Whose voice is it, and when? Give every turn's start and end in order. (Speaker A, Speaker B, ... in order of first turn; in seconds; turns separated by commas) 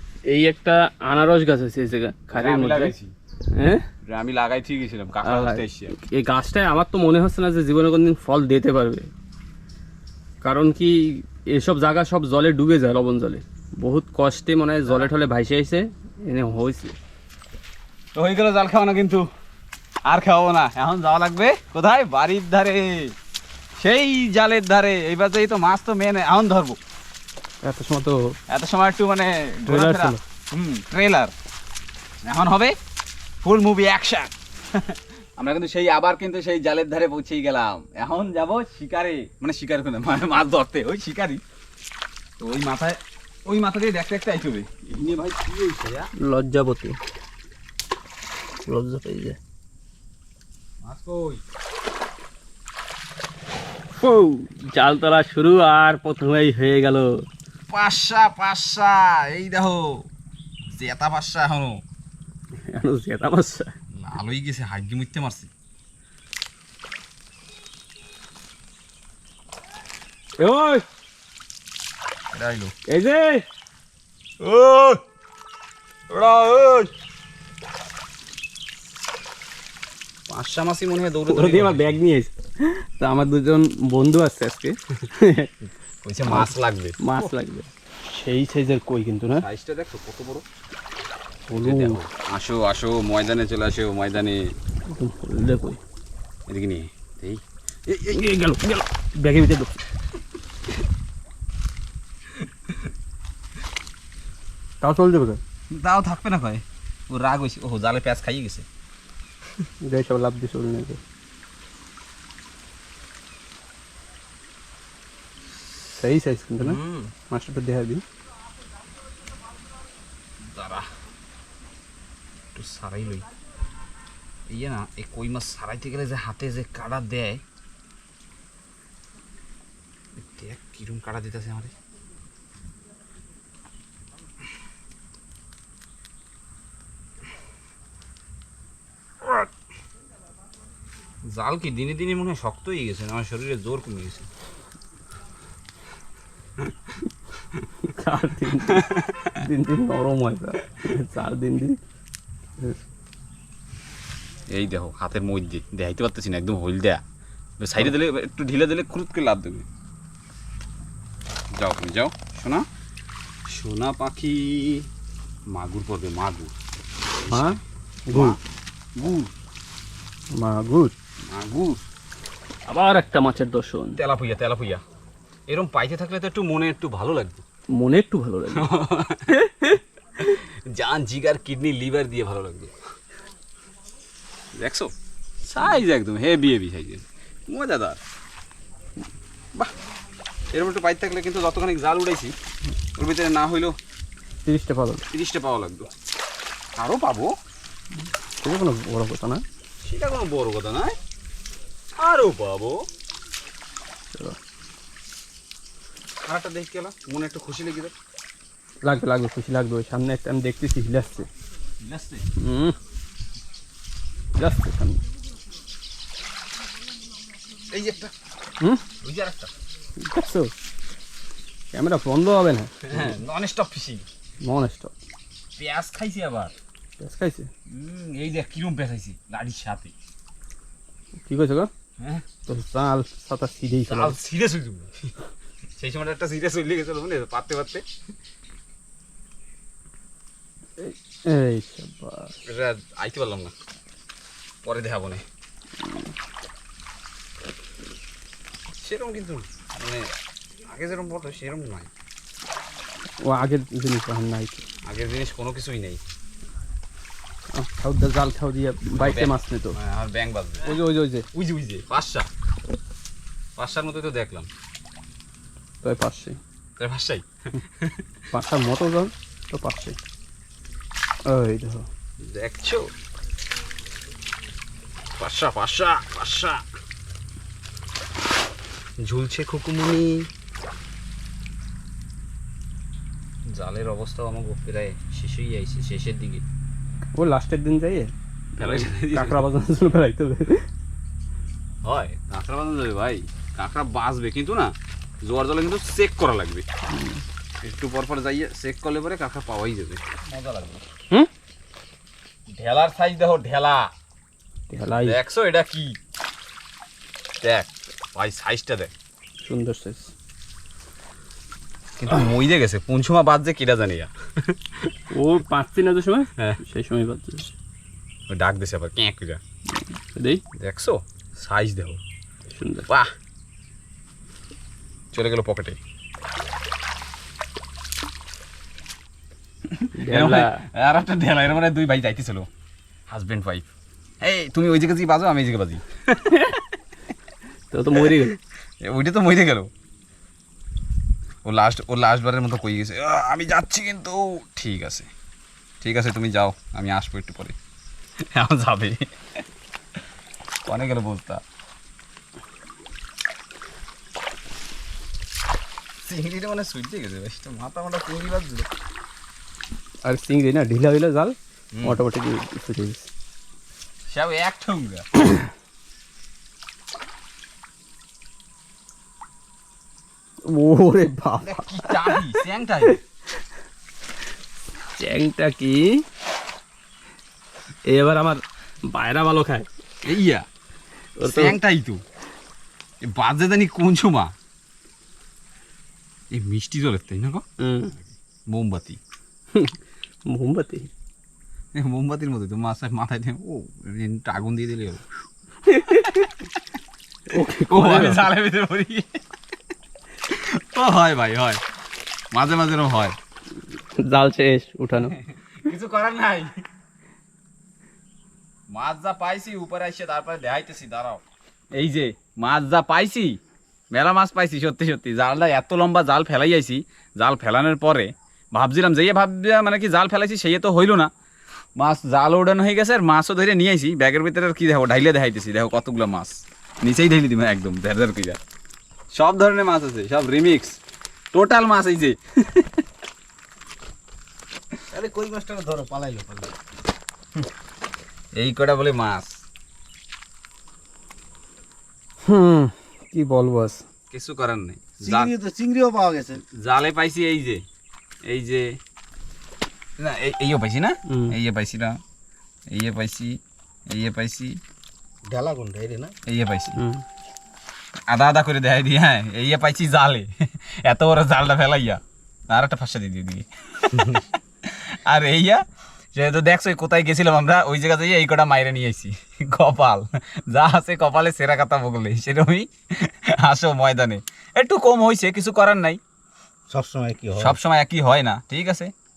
Speaker A: 0.2-2.9, Speaker B: 2.3-3.1, Speaker A: 3.5-3.9, Speaker B: 4.0-5.9, Speaker A: 5.2-9.1, Speaker A: 10.4-16.9, Speaker B: 18.1-19.3, Speaker B: 20.1-23.1, Speaker B: 23.8-26.8, Speaker A: 27.6-28.4, Speaker B: 28.5-31.3, Speaker A: 29.7-30.2, Speaker B: 32.2-32.8, Speaker B: 33.4-41.4, Speaker B: 42.4-46.1, Speaker A: 46.2-47.0, Speaker A: 48.6-49.4, Speaker B: 50.8-51.4, Speaker A: 54.0-57.2, Speaker B: 57.7-60.1, Speaker B: 60.6-61.8, Speaker A: 62.5-63.7, Speaker B: 63.9-65.5, Speaker A: 70.4-70.8, Speaker B: 72.3-72.7, Speaker A: 72.9-73.4, Speaker B: 74.4-75.0, Speaker B: 76.1-76.9, Speaker B: 80.3-82.0, Speaker A: 81.3-85.5, Speaker B: 86.0-87.3, Speaker A: 86.3-89.5, Speaker B: 89.4-90.4, Speaker A: 91.5-92.0, Speaker B: 91.5-94.5, Speaker A: 94.9-95.8, Speaker B: 96.5-98.2, Speaker A: 98.1-99.7, Speaker B: 102.4-102.9, Speaker A: 104.8-105.4, Speaker B: 105.7-108.7, Speaker A: 109.8-111.0, Speaker A: 115.9-116.8, Speaker B: 116.6-117.1, Speaker A: 117.3-118.0, Speaker B: 120.4-120.9, Speaker B: 122.5-123.3, Speaker B: 124.5-127.4, Speaker B: 130.1-131.7, Speaker B: 141.2-144.3, Speaker A: 147.8-151.8, Speaker B: 148.7-149.4, Speaker B: 154.5-157.0, Speaker B: 157.6-159.7, Speaker B: 161.5-162.7, Speaker B: 163.5-164.9, Speaker B: 165.5-166.5, Speaker B: 167.2-168.4, Speaker A: 167.3-168.4, Speaker B: 168.9-169.3, Speaker A: 170.3-170.9, Speaker B: 171.3-171.8, Speaker A: 172.7-174.0, Speaker B: 173.9-174.8, Speaker B: 175.5-177.4, Speaker A: 177.7-178.7, Speaker B: 178.5-179.4, Speaker A: 179.3-179.8, Speaker B: 180.2-182.7, Speaker B: 184.5-188.0, Speaker B: 190.5-192.3, Speaker B: 192.9-193.8, Speaker A: 194.4-195.1, Speaker B: 195.1-195.9, Speaker B: 196.8-197.3, Speaker A: 198.4-199.4, Speaker B: 199.8-201.0, Speaker B: 202.0-202.9, Speaker B: 206.2-207.9, Speaker A: 208.8-211.3, Speaker B: 211.8-212.2, Speaker A: 212.4-212.8, Speaker A: 214.3-215.0, Speaker B: 217.7-218.1, Speaker B: 219.0-219.5, Speaker A: 220.0-220.5, Speaker A: 221.7-223.1, Speaker B: 222.8-224.1, Speaker A: 224.4-224.9, Speaker B: 225.6-226.5, Speaker A: 227.0-227.5, Speaker B: 227.7-229.9, Speaker A: 231.2-231.7, Speaker B: 232.0-232.2, Speaker A: 232.4-234.2, Speaker B: 233.9-235.1, Speaker B: 235.8-237.8, Speaker A: 240.8-242.4, Speaker B: 242.4-243.5, Speaker B: 244.6-245.2, Speaker A: 245.8-246.1, Speaker B: 248.8-250.1, Speaker B: 250.7-251.9, Speaker A: 253.2-254.6, Speaker B: 254.8-256.0, Speaker A: 257.5-259.8, Speaker B: 258.9-262.3, Speaker A: 260.6-261.3, Speaker B: 263.6-264.5, Speaker A: 265.8-266.4, Speaker B: 266.8-268.0, Speaker A: 268.3-270.0, Speaker A: 271.3-271.9, Speaker B: 272.2-272.9, Speaker B: 275.2-276.6, Speaker B: 279.0-280.3, Speaker B: 283.4-286.4, Speaker A: 287.1-290.7, Speaker B: 288.6-289.5, Speaker B: 291.8-296.6, Speaker A: 296.9-297.2, Speaker B: 297.6-300.9, Speaker B: 302.5-303.9, Speaker A: 304.7-305.2, Speaker B: 304.8-306.0, Speaker B: 307.4-308.9, Speaker A: 309.4-310.1, Speaker B: 312.0-314.9, Speaker A: 315.1-317.5, Speaker B: 318.3-319.4, Speaker A: 320.0-320.4, Speaker B: 320.5-322.0, Speaker A: 322.5-322.9, Speaker B: 325.1-325.8, Speaker B: 329.6-332.5, Speaker A: 329.9-330.6, Speaker B: 333.1-333.6, Speaker B: 334.2-336.5, Speaker A: 336.3-336.6, Speaker A: 337.7-338.4, Speaker B: 337.9-339.7, Speaker B: 341.4-345.1, Speaker B: 345.8-347.6, Speaker B: 348.2-349.4, Speaker B: 350.6-351.4, Speaker B: 356.0-358.7, Speaker A: 360.0-363.1, Speaker B: 361.7-362.0, Speaker B: 364.1-365.1, Speaker A: 370.4-372.4, Speaker B: 371.4-373.0, Speaker A: 374.9-376.0, Speaker A: 377.9-379.7, Speaker B: 380.0-380.4, Speaker A: 381.2-381.6, Speaker B: 381.2-382.0, Speaker B: 383.0-384.3, Speaker B: 386.3-387.4, Speaker A: 387.6-388.0, Speaker B: 388.5-389.0, Speaker A: 390.2-390.9, Speaker B: 391.7-395.0, Speaker A: 395.6-396.3, Speaker A: 397.3-398.3, Speaker B: 397.7-399.2, Speaker B: 400.3-401.6, Speaker B: 402.3-403.1, Speaker A: 404.0-405.1, Speaker B: 404.9-406.6, Speaker B: 408.7-411.2, Speaker B: 411.7-413.4, Speaker B: 413.9-421.1, Speaker B: 421.8-428.4, Speaker B: 429.1-430.8, Speaker B: 431.3-432.8, Speaker C: 434.9-436.6, Speaker B: 438.3-439.4, Speaker A: 442.2-443.8, Speaker B: 444.1-445.3, Speaker C: 445.0-446.4, Speaker B: 446.5-447.6, Speaker B: 448.2-448.8, Speaker B: 450.0-452.0, Speaker A: 451.1-451.4, Speaker B: 452.7-453.4, Speaker B: 453.9-454.6, Speaker C: 455.3-456.1, Speaker B: 456.3-456.8, Speaker A: 456.7-457.0, Speaker B: 458.1-476.0, Speaker C: 476.7-477.6, Speaker B: 477.4-478.9